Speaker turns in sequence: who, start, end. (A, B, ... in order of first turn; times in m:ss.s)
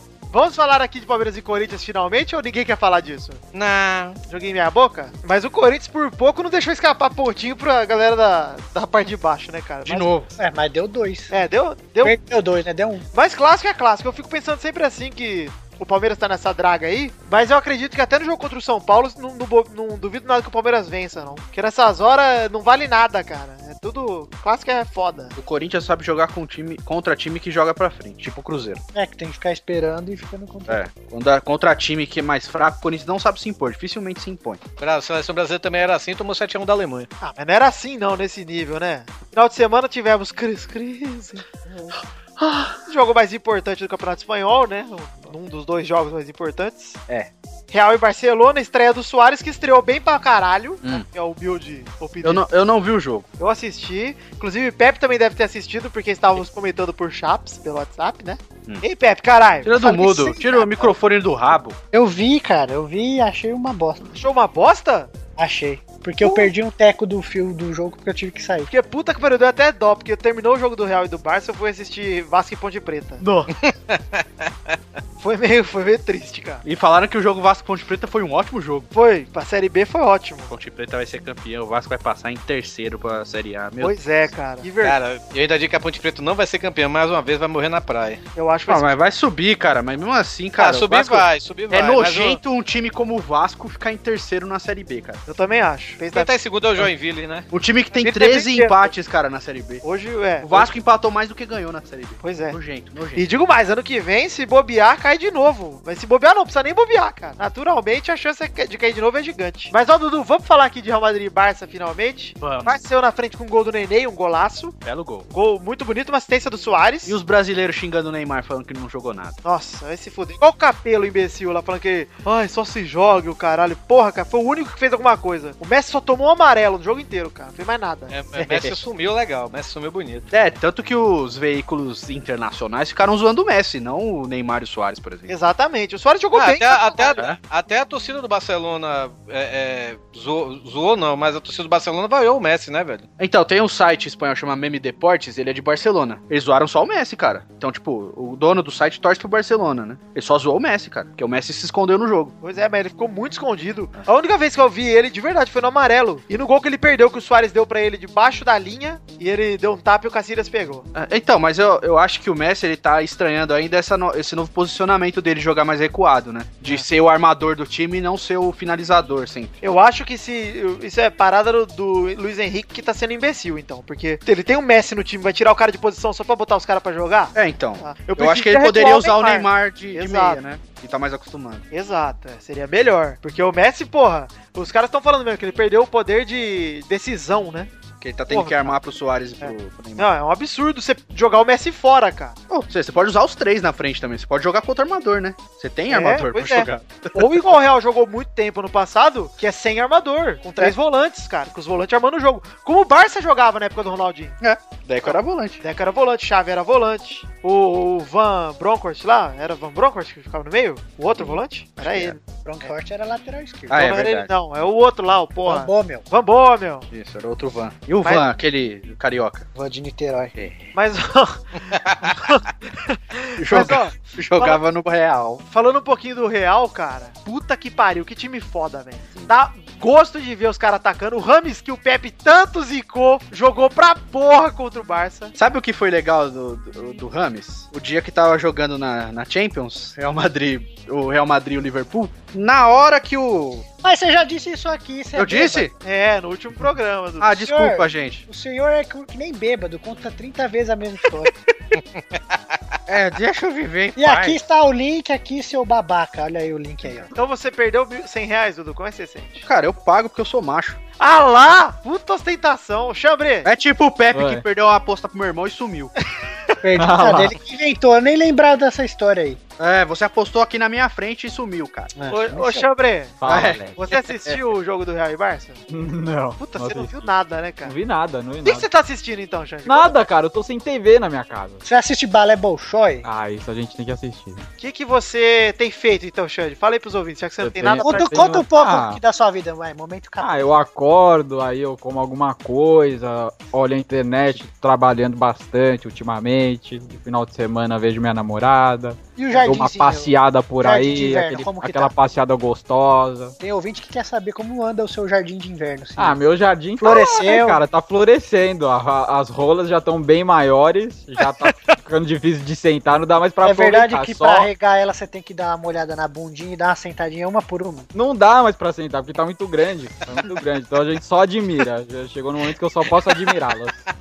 0:00.3-0:03.4 A
0:03.5-0:04.2 B
0:04.3-0:10.1 A
0:09.8-0:10.3 C
0:10.4-0:11.3 D
0:11.3-0:12.2 A
0:12.0-0:13.0 D
0:13.1-0:25.4 A
0:25.4-0:28.8 C
0:28.9-0:30.8 D
0:30.7-0:34.6 C
0:34.8-0:37.1 B
0:37.2-0:41.9 A
0:42.9-0:47.0 A
0:47.7-0:52.4 A
0:52.2-0:53.3 C
0:53.4-1:00.9 A
0:59.6-1:01.8 C
1:01.9-1:04.1 D
1:04.2-1:05.1 A
1:05.4-1:08.7 D
1:06.2-1:06.5 A
1:08.7-1:13.5 A
1:13.6-1:14.0 B
1:15.2-1:16.6 A
1:16.6-1:18.9 C
1:18.9-1:20.6 A
1:20.5-1:24.0 C
1:23.8-1:25.0 A
1:24.8-1:28.2 B
1:28.4-1:28.9 A
1:28.7-1:35.2 C
1:30.6-1:32.4 B
1:35.3-1:36.4 A
1:36.1-1:37.5 B
1:37.5-1:39.8 C
1:38.0-1:38.9 A
1:39.8-1:40.7 A
1:40.4-1:43.2 C
1:42.2-1:42.6 A
1:43.2-1:54.8 A
1:52.4-1:52.7 C
1:54.8-1:55.3 C
1:55.3-1:57.2 A
1:57.0-1:59.4 C
1:59.4-2:08.1 A
2:08.1-2:10.3 B
2:10.3-2:15.3 C
2:15.3-2:17.2 A
2:16.3-2:23.1 B
2:23.2-2:32.4 C
2:32.4-2:40.9 A
2:40.9-2:49.6 C
2:49.6-3:00.4 A
2:57.4-3:01.6 C
3:01.7-3:07.7 A
3:08.0-3:10.1 C
3:08.3-3:08.8 A
3:09.4-3:12.4 A
3:12.5-3:17.2 C
3:15.9-3:24.4 A
3:24.4-3:25.6 C
3:25.0-3:32.2 A
3:31.8-3:32.2 C
3:32.2-3:33.9 D
3:33.7-3:34.3 C
3:33.7-3:36.9 A
3:35.4-3:36.0 D
3:36.9-3:39.5 C
3:39.6-3:40.3 D
3:40.4-3:40.6 C
3:40.7-3:41.4 A
3:42.0-3:44.6 A
3:43.4-3:45.4 C
3:45.5-3:55.3 A
3:55.4-4:03.6 C
4:03.8-4:05.7 D
4:05.2-4:05.7 C
4:05.8-4:07.4 A
4:07.2-4:08.2 C
4:07.4-4:11.3 D
4:12.9-4:14.4 C
4:14.0-4:17.1 D
4:17.2-4:19.5 A
4:19.4-4:20.8 C
4:21.0-4:23.5 A
4:23.4-4:25.9 C
4:24.1-4:24.4 E
4:26.6-4:29.4 D
4:26.8-4:27.4 E
4:29.6-4:31.9 C
4:32.0-4:32.7 D
4:32.1-4:33.2 A
4:33.2-4:33.8 E
4:33.2-4:33.7 C
4:33.8-4:35.6 A
4:35.7-4:37.0 E
4:36.4-4:37.8 A
4:37.6-4:38.7 E
4:38.4-4:40.0 A
4:39.7-4:41.6 E
4:41.6-4:43.1 D
4:43.0-4:44.4 E
4:44.6-4:48.4 A
4:47.4-4:49.0 E
4:47.8-4:50.6 D
4:50.2-5:03.4 E
4:59.2-5:01.9 D
5:03.4-5:06.2 D
5:06.0-5:14.5 E
5:06.8-5:07.6 D
5:13.4-5:17.9 D
5:17.9-5:23.8 E